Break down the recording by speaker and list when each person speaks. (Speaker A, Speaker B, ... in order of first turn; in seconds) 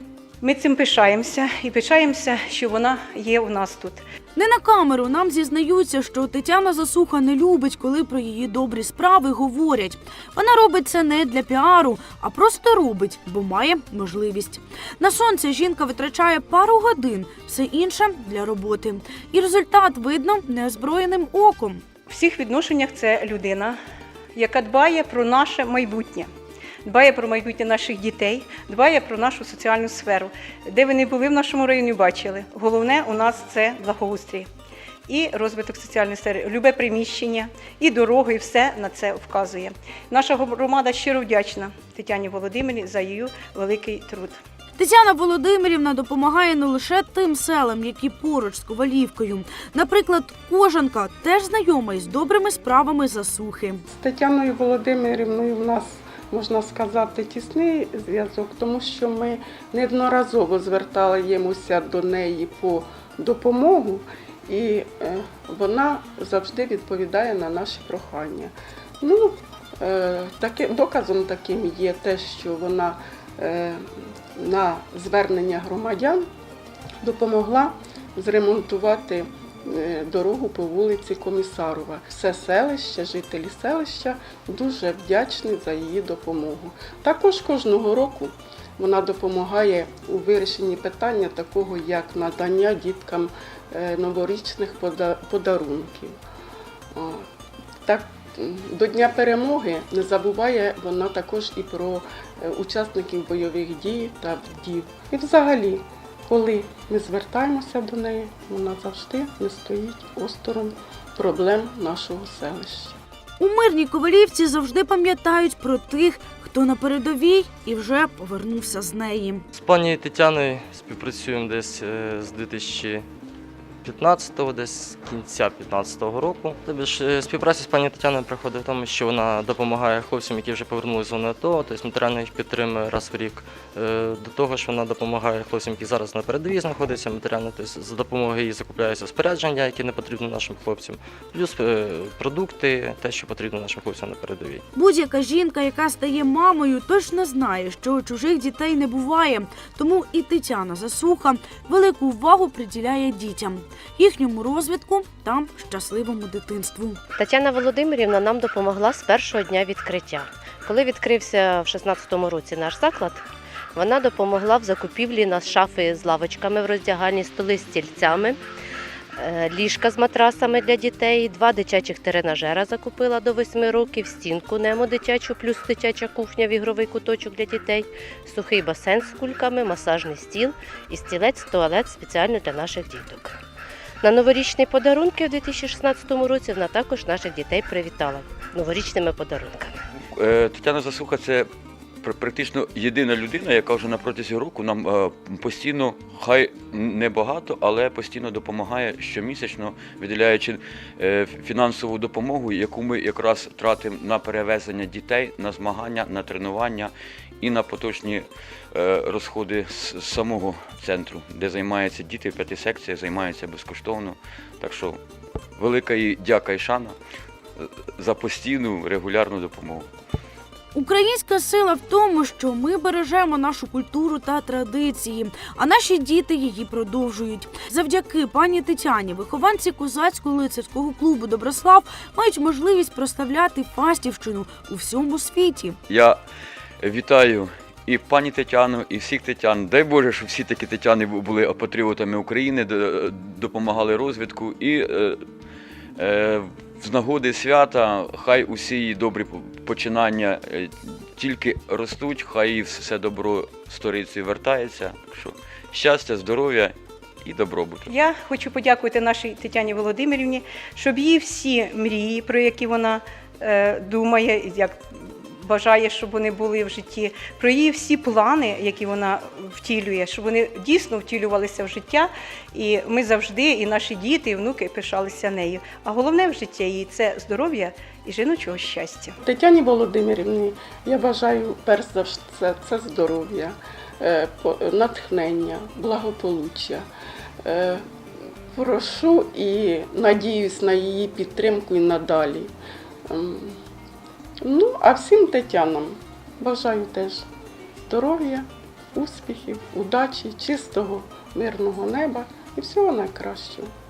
Speaker A: 0.4-4.0, 22.1-23.8, 24.3-26.3, 26.8-34.5, 35.1-44.3, 257.9-279.1
Speaker B: 4.3-21.8, 44.8-53.8, 113.4-119.4, 144.7-157.0, 220.7-235.8
Speaker C: 53.9-73.8, 74.3-76.2, 77.0-96.1, 96.9-97.2, 97.8-113.0, 279.2-286.9, 287.4-287.8, 288.5-292.5, 293.1-293.6, 294.4-297.2, 297.9-303.7
Speaker D: 119.5-123.0, 123.8-144.6
Speaker E: 157.2-168.4, 169.2-183.3, 184.0-189.8
Speaker F: 190.1-191.5, 192.0-215.0, 215.6-217.0, 217.6-219.9, 235.9-236.2, 236.8-245.2, 246.0-257.9